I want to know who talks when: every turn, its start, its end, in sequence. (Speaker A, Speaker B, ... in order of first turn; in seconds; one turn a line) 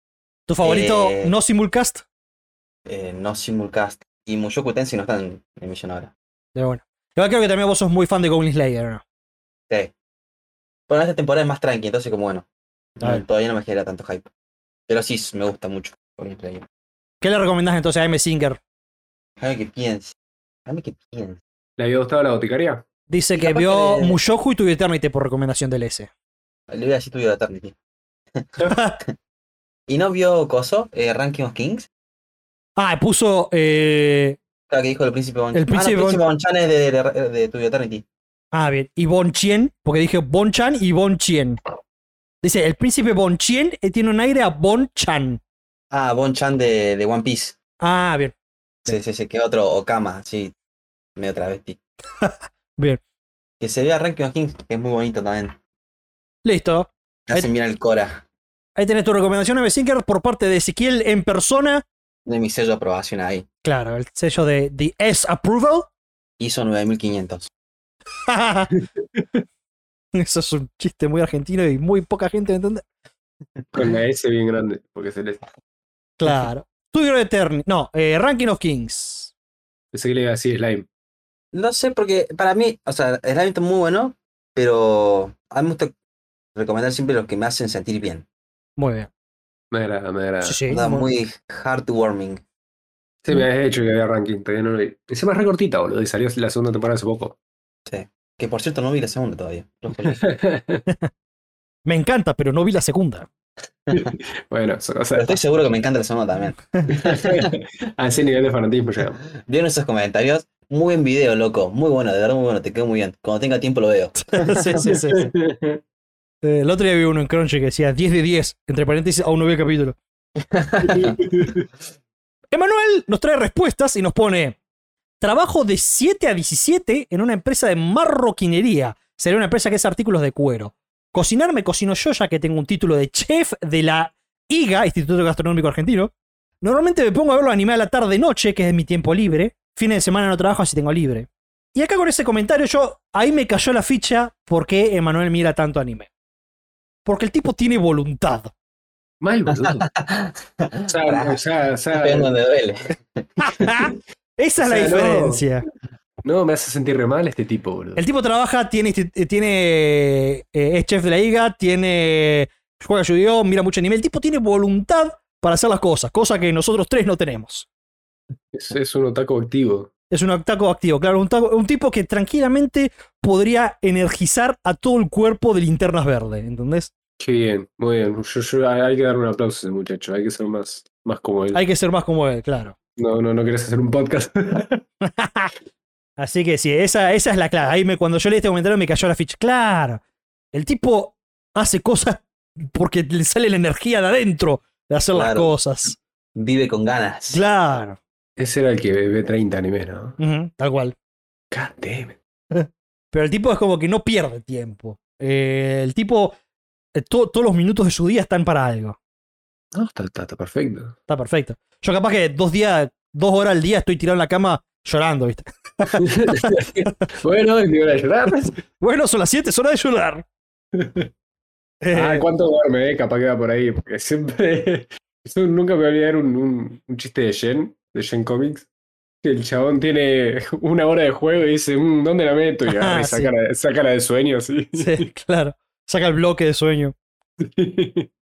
Speaker A: 0.5-2.0
Speaker B: 0.6-1.3
Speaker B: 2.9-6.1
Speaker A: 6.5-9.0
Speaker B: 10.9-12.5
Speaker B: 13.0-14.3
Speaker B: 14.9-16.6
Speaker A: 17.2-18.6
Speaker B: 19.4-20.1
Speaker B: 20.7-21.4
Speaker C: 21.8-22.8
Speaker A: 23.1-26.1
Speaker B: 23.4-24.2
Speaker B: 26.7-27.8
Speaker B: 28.4-29.1
Speaker A: 28.7-29.0
Speaker B: 29.9-31.9
Speaker A: 32.8-34.4
Speaker B: 34.7-38.0
Speaker A: 35.5-36.2
Speaker A: 38.5-41.6
Speaker A: 42.4-45.4
Speaker B: 45.9-47.6
Speaker A: 47.8-48.4
Speaker B: 48.9-50.5
Speaker B: 51.2-51.8
Speaker A: 52.2-53.0
Speaker B: 53.6-55.6
Speaker A: 56.5-57.5
Speaker B: 57.3-58.2
Speaker A: 58.8-61.9
Speaker B: 62.3-63.5
Speaker A: 63.6-65.9
Speaker B: 66.4-67.5
Speaker A: 68.3-68.7
Speaker A: 70.2-72.9
Speaker C: 73.7-75.5
Speaker A: 76.2-79.3
Speaker C: 79.9-80.9
Speaker B: 81.5-86.0
Speaker B: 86.5-88.3
Speaker A: 88.8-89.1
Speaker C: 89.7-90.6
Speaker A: 90.4-91.1
Speaker B: 90.7-92.4
Speaker C: 93.2-97.4
Speaker B: 97.9-100.2
Speaker C: 100.0-100.8
Speaker A: 101.8-103.3
Speaker C: 103.9-105.4
Speaker B: 105.2-107.5
Speaker C: 106.9-109.2
Speaker B: 109.4-114.9
Speaker A: 114.3-115.3
Speaker C: 114.9-115.8
Speaker A: 116.4-120.0
Speaker B: 120.5-121.2
Speaker C: 120.8-121.7
Speaker A: 122.5-124.6
Speaker A: 125.2-146.1
Speaker A: 147.1-148.5
Speaker C: 149.2-149.9
Speaker B: 149.6-151.4
Speaker C: 150.8-152.3
Speaker B: 151.9-153.7
Speaker A: 153.4-155.7
Speaker C: 154.6-155.5
Speaker C: 156.2-158.0
Speaker A: 158.0-167.7
Speaker C: 168.5-169.9
Speaker A: 170.1-176.9
Speaker C: 177.2-181.6
Speaker A: 181.5-182.8
Speaker C: 183.0-184.8
Speaker A: 185.0-185.5
Speaker A: 186.2-190.0
Speaker A: 190.5-196.0
Speaker B: 195.1-195.5
Speaker B: 196.3-197.4
Speaker A: 197.3-198.0
Speaker C: 198.4-200.2
Speaker A: 200.2-200.9
Speaker C: 201.5-202.2
Speaker A: 202.5-206.4
Speaker A: 206.9-209.0
Speaker C: 209.7-211.0
Speaker A: 211.1-216.9
Speaker C: 216.0-218.6
Speaker A: 218.8-220.2
Speaker C: 220.8-221.1
Speaker A: 221.8-222.3
Speaker C: 221.9-228.7
Speaker C: 229.2-235.1
Speaker A: 232.7-233.3
Speaker A: 234.8-236.9
Speaker C: 237.4-238.1